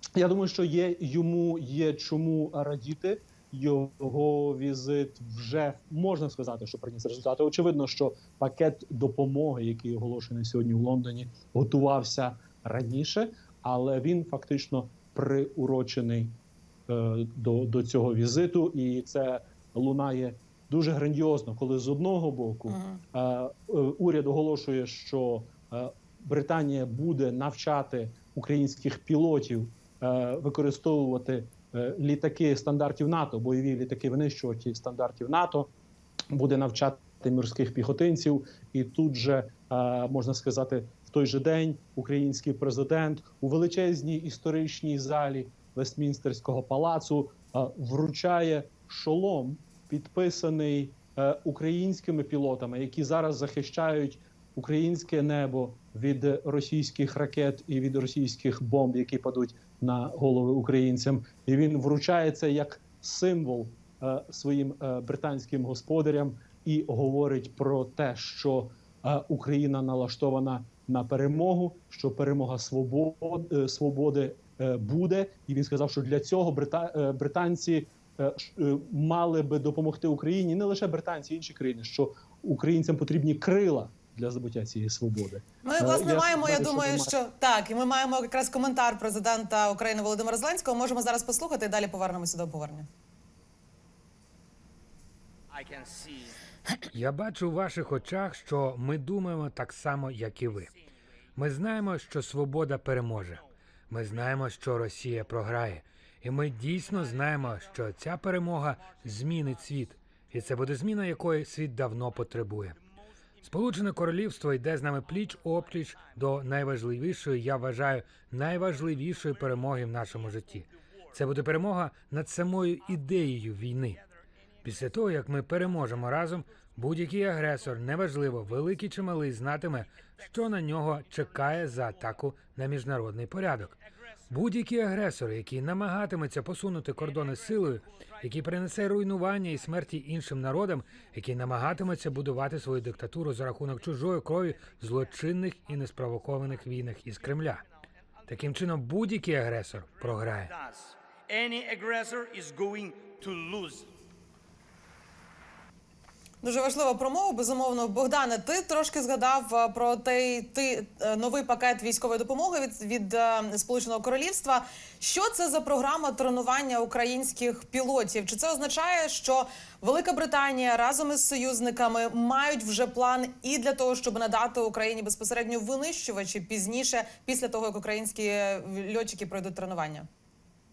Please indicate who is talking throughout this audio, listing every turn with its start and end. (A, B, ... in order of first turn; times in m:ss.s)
0:00.1-0:16.3 A
0:16.9-0:35.7 A
0:22.7-0:23.0 B
0:36.3-1:27.1 A
1:25.6-1:32.9 B
1:35.5-1:36.4 C
1:36.9-1:40.7 D
1:41.4-1:52.8 D
1:53.4-2:04.0 D
2:04.6-2:13.8 D
2:14.3-2:27.6 D
2:28.3-2:30.5 D
2:30.5-2:33.9 C
2:36.4-3:00.1 B